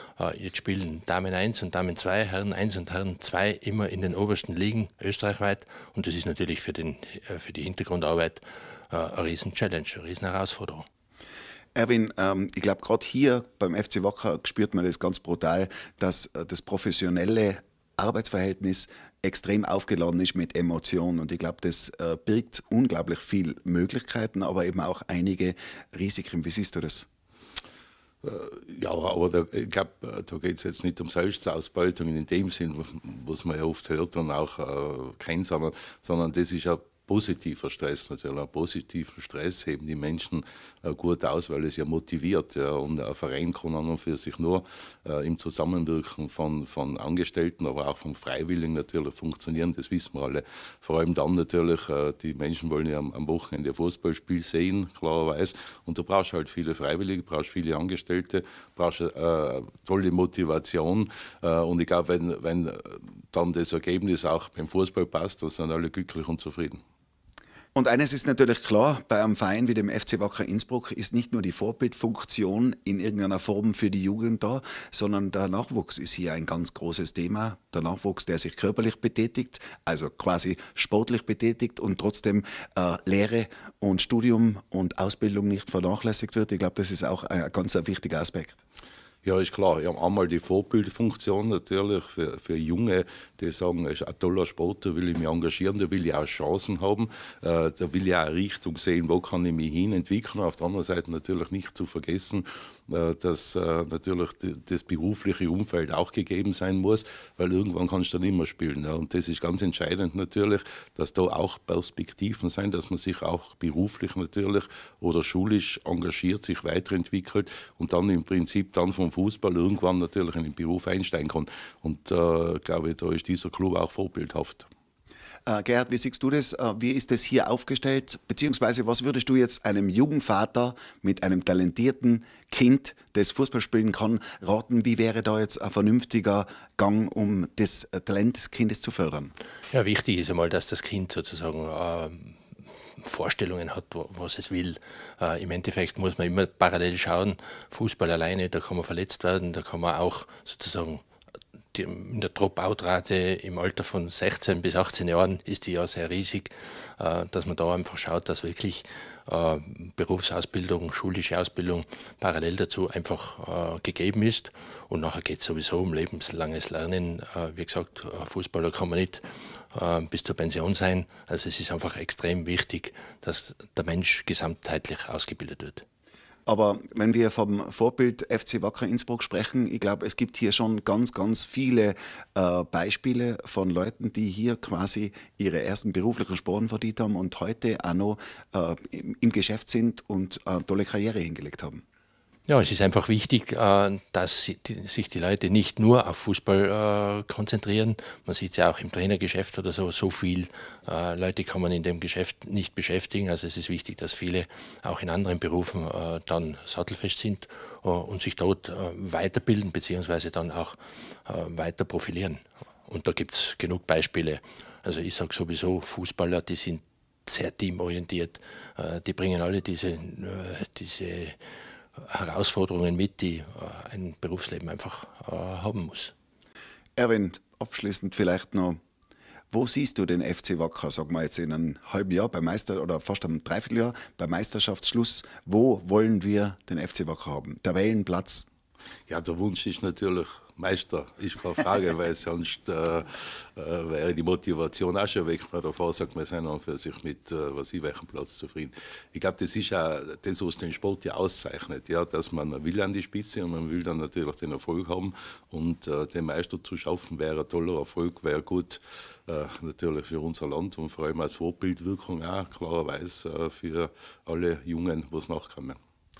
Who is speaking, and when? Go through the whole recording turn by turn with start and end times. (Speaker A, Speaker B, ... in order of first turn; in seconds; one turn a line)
Speaker A: 0.2-10.8
Speaker B: 11.8-27.1
Speaker C: 28.2-66.8
Speaker B: 67.7-88.6
Speaker C: 89.2-124.7
Speaker B: 125.5-139.3
Speaker A: 139.7-142.4
Speaker A: 143.0-151.0
Speaker A: 151.7-169.2
Speaker A: 169.7-175.8
Speaker B: 176.5-191.8
Speaker A: 192.5-221.4
Speaker A: 222.0-226.1
Speaker B: 227.0-228.8
Speaker B: 229.5-238.5
Speaker C: 239.1-265.8